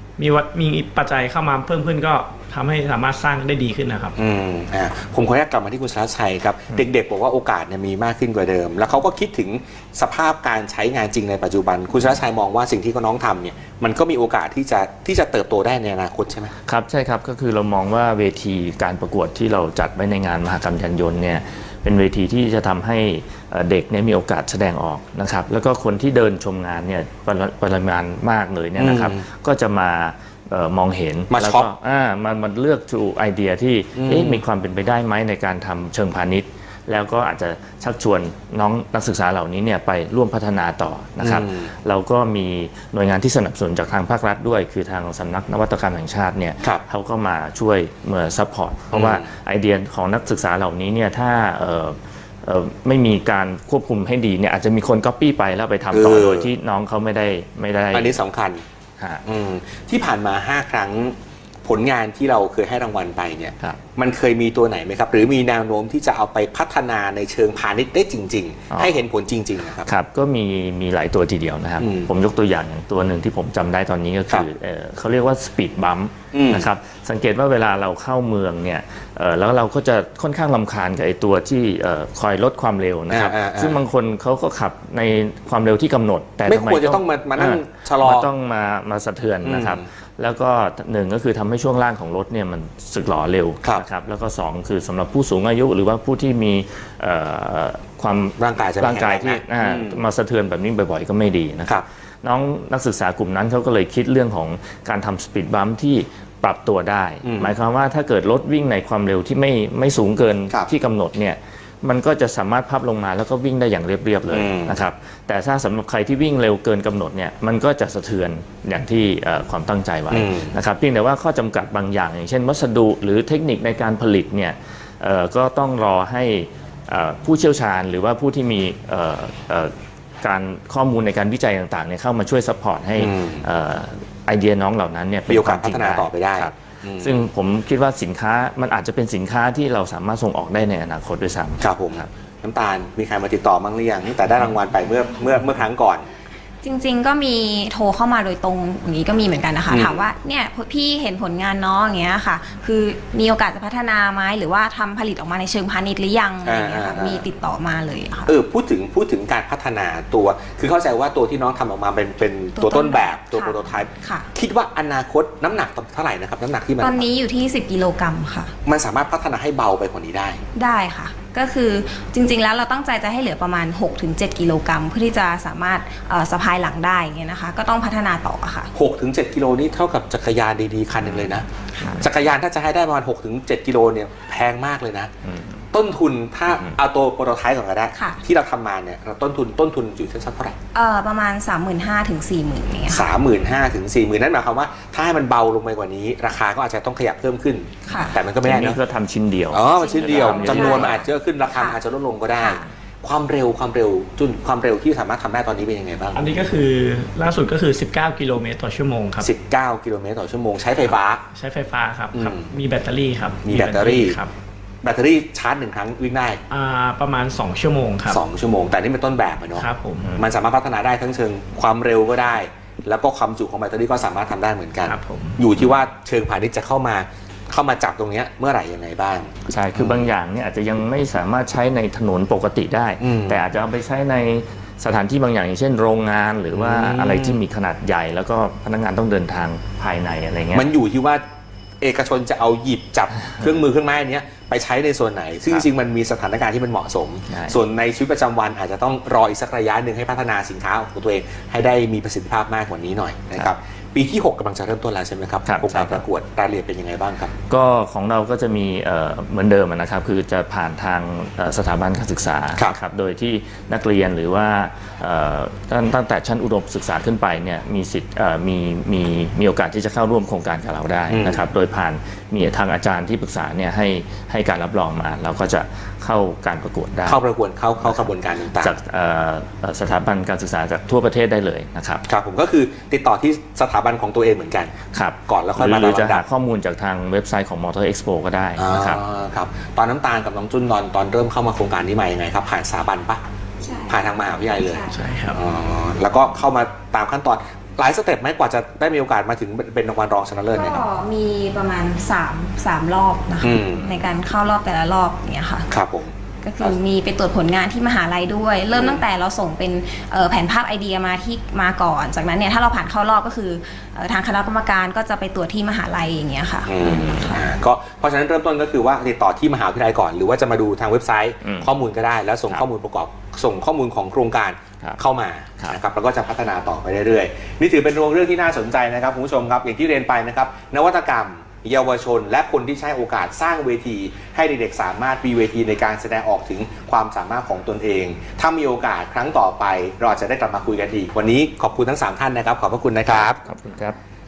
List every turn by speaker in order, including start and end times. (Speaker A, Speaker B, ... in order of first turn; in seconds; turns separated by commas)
Speaker A: 0.2-4.1, Speaker B: 4.2-16.5, Speaker C: 16.6-58.2, Speaker B: 28.8-29.2, Speaker B: 31.3-31.7, Speaker B: 34.0-34.4, Speaker B: 41.2-41.7, Speaker B: 48.9-49.3, Speaker B: 55.9-56.5, Speaker B: 57.9-58.6, Speaker B: 59.2-69.9, Speaker C: 68.7-69.0, Speaker C: 69.8-129.7, Speaker B: 71.8-72.1, Speaker B: 76.3-76.7, Speaker B: 83.1-83.8, Speaker B: 86.5-88.3, Speaker B: 89.4-89.8, Speaker B: 98.4-100.0, Speaker B: 107.2-107.5, Speaker B: 114.3-114.8, Speaker B: 120.1-120.5, Speaker C: 130.2-142.1, Speaker B: 133.0-133.4, Speaker B: 135.3-137.2, Speaker B: 141.6-146.1, Speaker D: 146.6-158.3, Speaker B: 149.7-150.1, Speaker B: 156.4-157.3, Speaker B: 158.3-167.1, Speaker D: 162.5-164.3, Speaker D: 166.8-168.5, Speaker B: 168.6-170.4, Speaker D: 170.5-178.7, Speaker B: 178.7-181.4, Speaker C: 181.0-181.3, Speaker D: 181.8-182.1, Speaker B: 182.0-185.1, Speaker C: 185.2-185.6, Speaker B: 185.7-190.5, Speaker C: 186.5-186.8, Speaker D: 187.9-188.2, Speaker D: 190.7-193.1, Speaker B: 192.9-198.8, Speaker D: 197.8-198.2, Speaker C: 198.4-200.8, Speaker B: 199.5-206.2, Speaker D: 199.7-201.8, Speaker A: 200.5-200.9, Speaker D: 202.4-202.7, Speaker A: 206.1-209.3, Speaker B: 209.2-211.2, Speaker A: 210.8-214.3, Speaker B: 212.1-212.5, Speaker B: 213.4-214.2, Speaker B: 214.8-216.4, Speaker A: 216.5-218.2, Speaker B: 218.1-230.1, Speaker A: 219.5-220.2, Speaker A: 224.8-225.4, Speaker C: 229.5-240.7, Speaker B: 233.0-233.4, Speaker B: 236.5-237.4, Speaker B: 240.5-241.2, Speaker B: 241.8-257.3, Speaker C: 247.3-247.6, Speaker C: 255.4-256.0, Speaker C: 257.5-277.2, Speaker B: 271.1-271.5, Speaker B: 277.1-278.7, Speaker C: 277.8-282.0, Speaker B: 282.1-284.7, Speaker C: 284.9-289.0, Speaker B: 285.3-286.2, Speaker B: 288.6-293.2, Speaker D: 293.6-295.0, Speaker B: 293.9-300.8, Speaker A: 294.9-295.4, Speaker D: 300.5-305.7, Speaker B: 303.4-303.9, Speaker B: 305.7-306.8, Speaker D: 306.4-317.5, Speaker B: 308.7-309.0, Speaker B: 316.7-343.4, Speaker C: 316.8-317.4, Speaker C: 321.4-321.7, Speaker C: 343.1-343.9